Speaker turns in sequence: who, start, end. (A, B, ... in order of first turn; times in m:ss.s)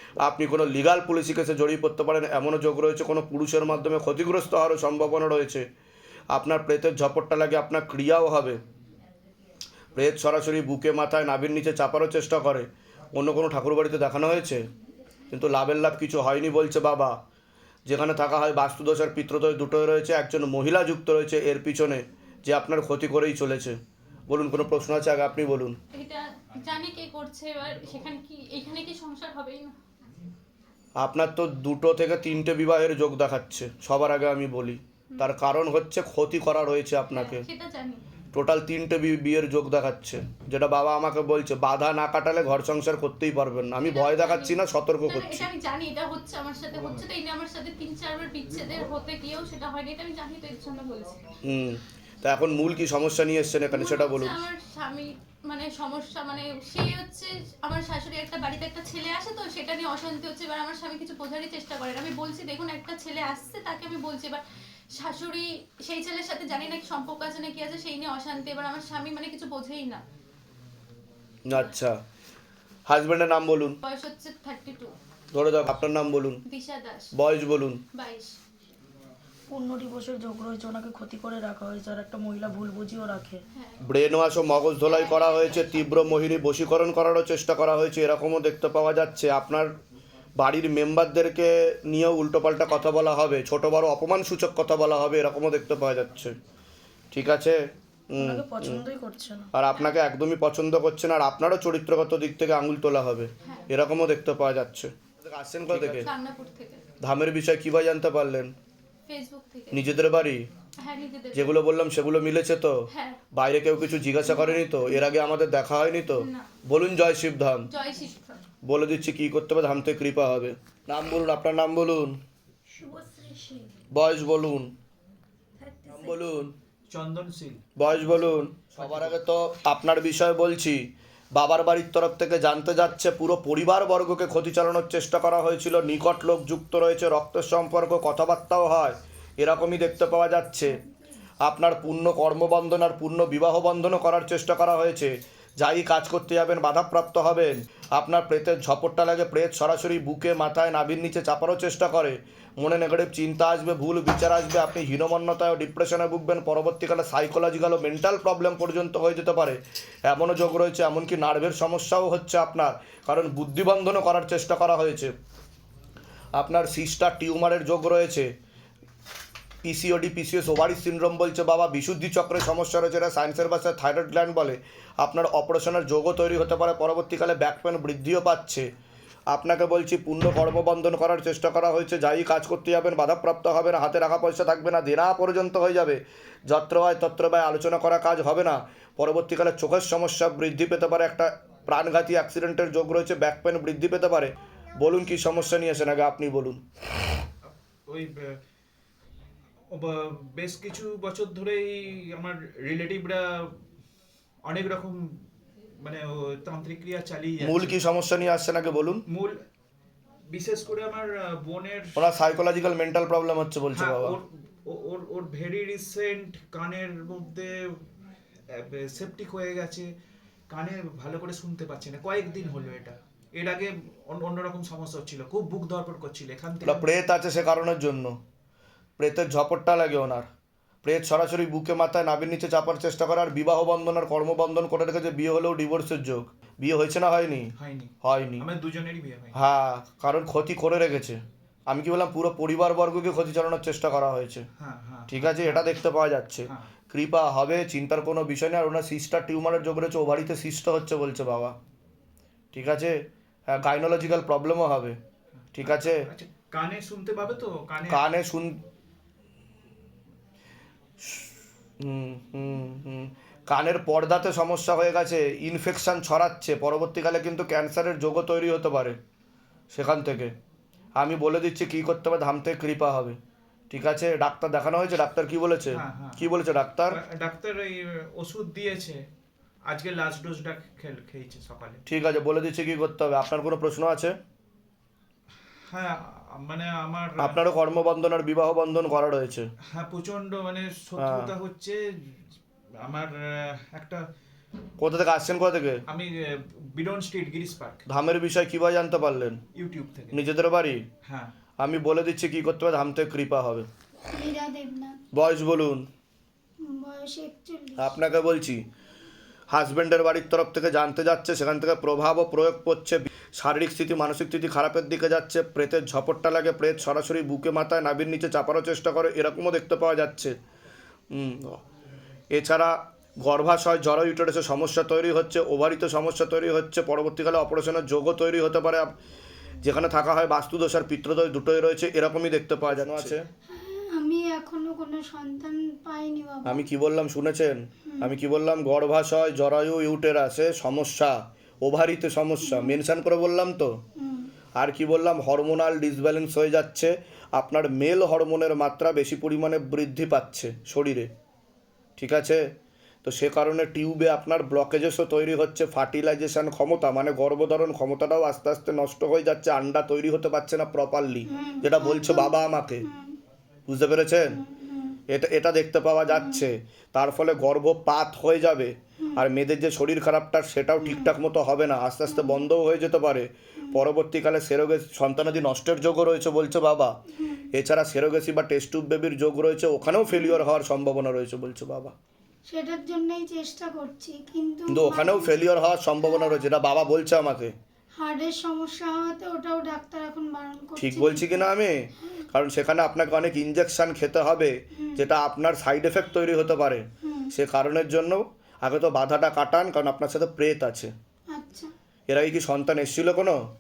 0:00.2-0:05.6 A
0:06.3-0:08.6 A
0:09.9-0:14.7 A
0:15.3-0:17.2 A
0:17.9-0:23.8 A
0:24.3-0:25.8 A
0:25.9-0:29.8 B
0:31.0-0:37.4 A
0:37.1-0:38.0 B
0:38.3-0:45.5 A
0:43.8-0:51.2 B
0:51.4-0:54.4 A
0:53.7-1:04.4 B
1:05.0-1:10.0 B
1:11.4-1:12.0 A
1:11.5-1:11.8 B
1:12.9-1:13.8 A
1:13.8-1:14.9 B
1:15.3-1:16.4 A
1:16.5-1:17.1 B
1:17.2-1:17.8 A
1:17.9-1:18.4 B
1:19.5-1:23.4 C
1:23.8-1:29.7 A
1:24.8-1:26.3 B
1:30.4-1:36.3 A
1:37.1-1:37.6 A
1:38.1-1:38.8 A
1:38.2-1:39.5 C
1:39.5-1:46.1 A
1:45.7-1:46.8 B
1:47.0-1:48.5 A
1:49.1-1:50.0 B
1:49.7-1:50.4 A
1:50.8-1:51.6 B
1:51.3-1:52.8 A
1:52.9-1:53.2 B
1:53.4-1:57.6 A
1:54.2-1:55.0 B
1:56.1-1:56.5 B
1:57.7-1:58.4 B
1:58.6-2:02.2 A
2:02.8-2:03.6 C
2:03.9-2:04.7 A
2:05.6-2:06.2 C
2:05.9-2:06.5 A
2:06.9-2:07.6 D
2:07.8-2:10.8 A
2:08.7-2:09.2 D
2:11.4-2:20.8 A
2:21.4-2:45.1 A
2:46.4-2:48.3 A
2:49.6-2:58.7 A
2:59.3-3:16.6 A
3:17.9-3:18.4 D
3:19.7-3:23.5 D
3:24.5-3:25.2 D
3:25.8-3:27.8 D
3:27.4-3:29.0 A
3:29.1-3:29.3 D
3:30.3-3:32.1 D
3:32.0-3:34.2 A
3:33.7-3:37.8 D
3:38.5-3:39.9 D
3:40.5-3:46.9 D
3:46.6-3:48.1 A
3:49.0-3:50.3 A
3:50.8-3:57.5 A
3:57.6-3:59.4 D
3:58.0-3:58.4 A
3:59.3-4:04.5 A
4:04.6-4:05.7 D
4:05.1-4:11.6 A
4:12.5-4:15.0 A
4:15.6-4:16.1 A
4:15.6-4:18.2 D
4:17.9-4:18.6 A
4:21.0-4:29.0 A
4:29.7-4:30.3 A
4:31.0-4:33.2 A
4:33.7-4:37.0 A
4:35.7-4:36.3 D
4:36.9-4:39.0 D
4:39.7-4:41.8 D
4:41.9-4:44.1 A
4:45.7-4:47.4 D
4:47.2-4:49.5 A
4:49.7-4:52.1 D
4:51.0-4:51.3 A
4:52.8-4:54.0 D
4:54.8-4:55.8 A
4:55.9-4:57.9 D
4:57.9-4:59.4 A
4:59.6-5:00.2 D
5:00.1-5:00.8 A
5:01.0-5:01.3 D
5:01.6-5:03.6 A
5:04.1-5:05.0 E
5:05.1-5:05.9 A
5:06.6-5:08.0 E
5:07.8-5:08.6 A
5:09.5-5:20.3 A
5:21.1-5:21.6 A
5:22.3-5:28.9 A
5:29.6-5:33.2 A
5:33.5-5:36.7 E
5:36.4-5:43.7 A
5:42.4-5:42.8 E
5:44.0-5:44.3 E
5:44.6-5:51.1 A
5:52.0-5:52.4 A
5:53.0-6:02.9 A
6:01.3-6:03.2 E
6:03.7-6:04.4 A
6:04.4-6:05.0 E
6:05.1-6:17.0 A
6:06.1-6:06.4 E
6:10.8-6:11.1 E
6:12.1-6:12.4 E
6:17.2-6:17.4 E
6:17.5-6:21.9 A
6:20.1-6:20.4 E
6:22.5-6:25.3 E
6:24.7-6:27.5 A
6:26.0-6:26.4 E
6:28.0-6:32.2 E
6:30.8-6:40.9 A
6:34.8-6:35.0 E
6:37.0-6:37.3 E
6:41.3-6:41.7 E
6:42.1-6:43.4 A